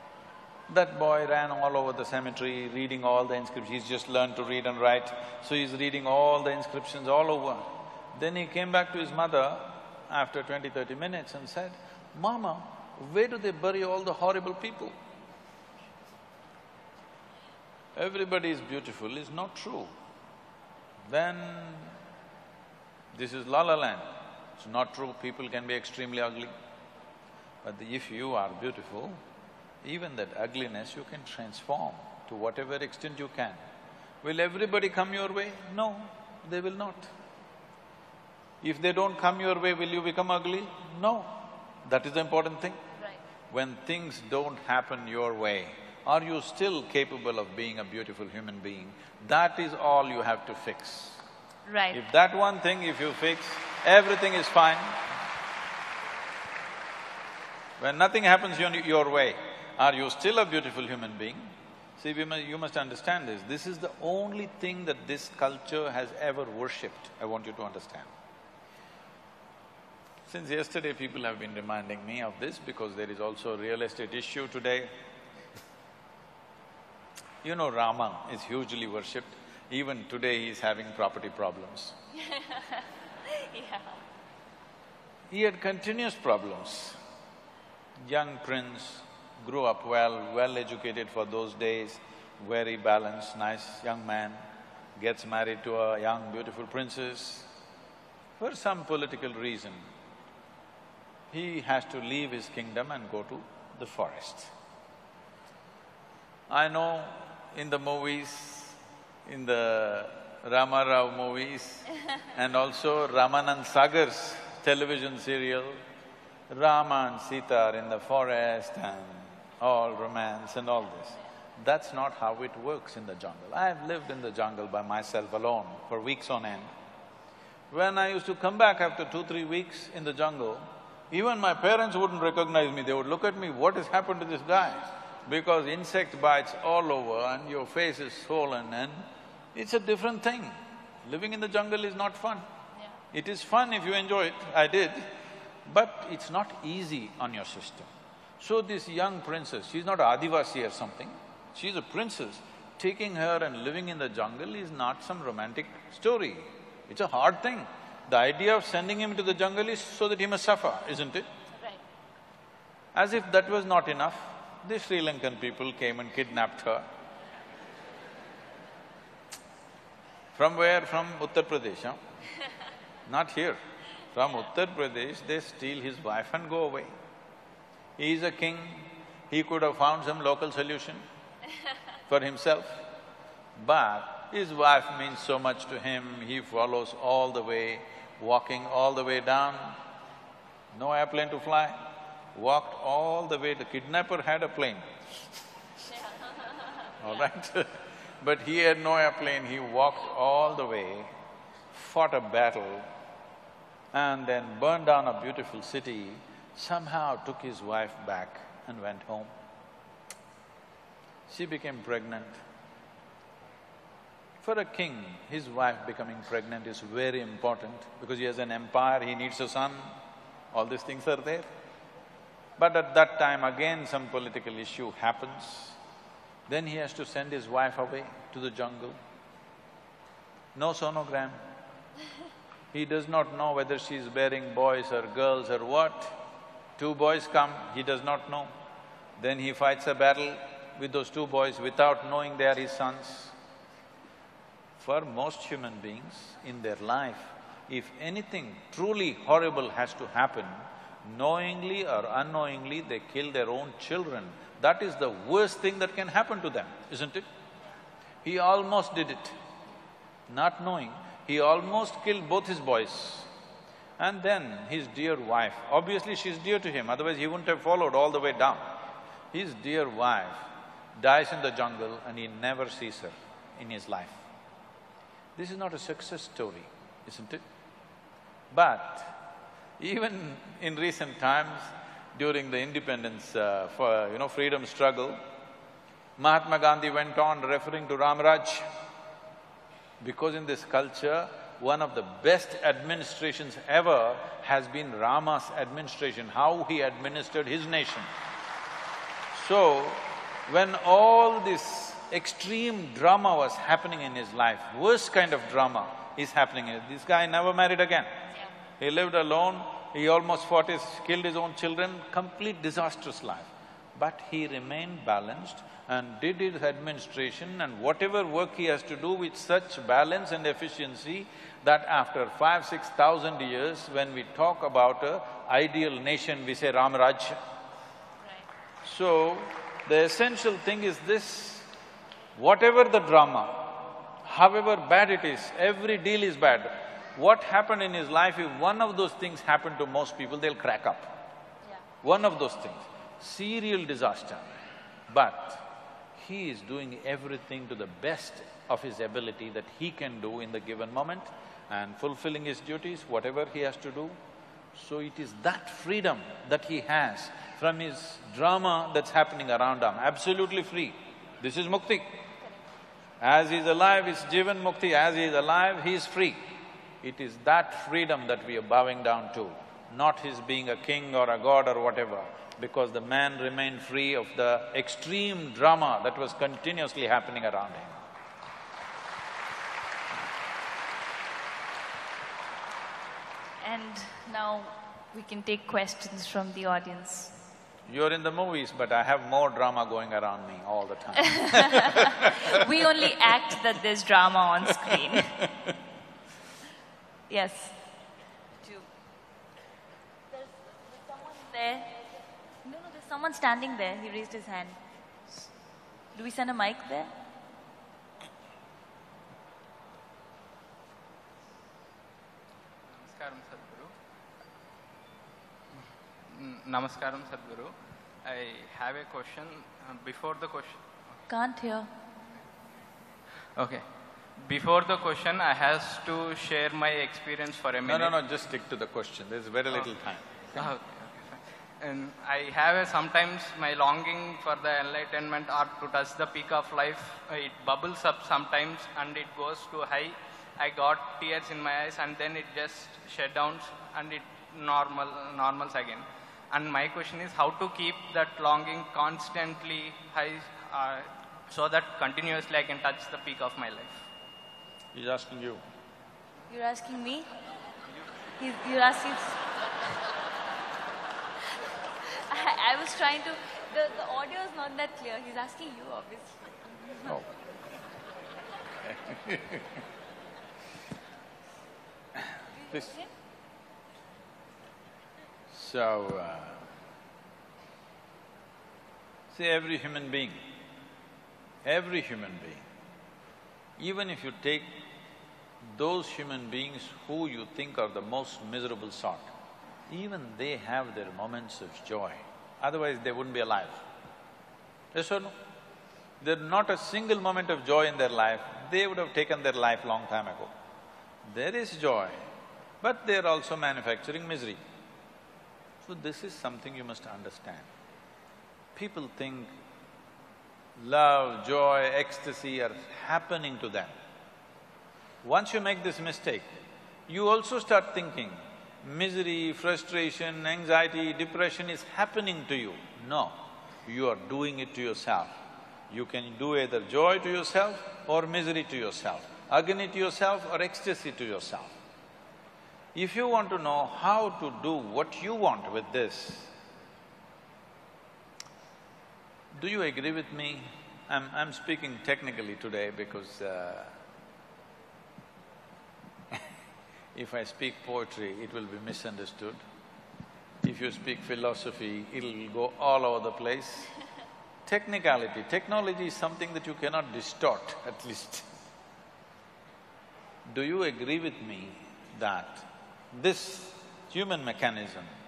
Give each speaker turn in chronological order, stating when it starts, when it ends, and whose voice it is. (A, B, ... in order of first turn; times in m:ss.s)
0:00.7-0:15.0 A
0:18.0-0:19.9 A
0:21.1-0:22.0 A
0:23.1-0:26.5 A
0:27.6-0:29.2 A
0:29.8-0:33.6 A
0:34.2-0:37.1 A
0:38.6-0:42.8 A
0:43.5-0:51.2 A
0:51.7-0:52.0 B
0:51.9-0:55.0 A
0:57.8-1:08.1 A
1:10.3-1:14.9 A
1:17.4-1:22.0 A
1:22.2-1:22.8 B
1:23.4-1:24.0 B
1:25.3-1:27.0 A
1:28.0-1:34.4 A
1:35.0-1:37.5 A
1:38.4-1:39.8 A
1:41.3-1:44.5 A
1:46.5-1:55.8 A
1:56.5-2:06.7 A
2:07.7-2:22.4 A
2:23.1-2:25.1 A
2:25.7-2:27.9 A
2:28.4-2:41.3 A
2:41.5-2:41.8 B
2:43.0-2:46.9 A
2:50.4-2:52.0 A
2:53.1-2:53.6 A
2:54.1-2:56.9 A
2:58.0-3:01.0 A
3:02.1-3:02.8 A
3:03.6-3:09.8 A
3:10.7-3:14.9 A
3:17.0-3:21.1 A
3:21.7-3:22.9 A
3:23.9-3:29.3 A
3:31.3-3:32.4 A
3:34.4-3:39.9 A
3:40.5-3:41.5 A
3:42.6-3:45.8 A
3:46.5-3:49.0 A
3:50.6-3:51.4 A
3:52.7-3:56.2 A
3:56.8-3:58.5 A
3:59.2-4:03.3 A
4:04.8-4:17.3 A
4:18.2-4:19.4 A
4:20.3-4:23.3 A
4:24.0-4:28.7 A
4:29.3-4:30.4 A
4:31.0-4:34.2 A
4:35.4-4:37.4 A
4:38.5-4:39.2 A
4:39.8-4:45.2 A
4:46.2-4:48.6 A
4:50.0-4:58.1 A
4:59.3-5:08.2 A
5:08.8-5:27.4 A
5:28.2-5:28.5 B
5:28.8-5:31.7 A
5:32.4-5:41.1 A
5:42.0-5:44.5 A
5:45.1-5:45.6 A
5:46.2-5:54.2 A
5:54.8-6:02.2 A
6:03.2-6:06.4 A
6:07.0-6:18.0 A
6:23.6-6:27.3 B
6:27.9-6:31.9 A
6:32.5-6:35.3 B
6:37.3-6:37.8 B
6:41.1-6:41.9 B
6:42.6-6:44.8 B
6:46.1-6:47.1 B
6:52.9-6:53.9 C
6:56.3-6:57.7 C
6:58.2-7:00.8 C
7:01.3-7:01.9 B
7:03.6-7:03.8 C
7:04.4-7:08.2 C
7:07.8-7:10.7 A
7:10.6-7:34.0 C
7:35.0-7:35.6 A
7:36.5-7:37.3 B
7:38.4-7:39.4 B
7:42.2-7:46.5 B
7:47.0-7:47.3 A
7:48.8-7:49.7 A
7:52.6-7:53.1 B
7:55.5-7:56.6 A
7:59.3-8:00.4 A
8:01.6-8:02.6 A
8:03.8-8:04.8 A
8:05.7-8:09.3 A
8:09.9-8:13.8 A
8:14.9-8:15.3 A
8:16.2-8:20.5 A
8:21.3-8:22.2 A
8:22.8-8:24.6 A
8:25.8-8:27.7 A
8:28.8-8:29.5 A
8:30.8-8:33.9 A
8:35.2-8:36.5 A
8:37.1-8:43.4 A
8:43.9-8:45.3 A
8:45.9-8:51.7 A
8:53.0-8:56.5 A
8:59.5-9:04.0 A
9:07.2-9:09.6 A
9:10.6-9:13.9 A
9:14.7-9:18.5 A
9:20.5-9:25.1 A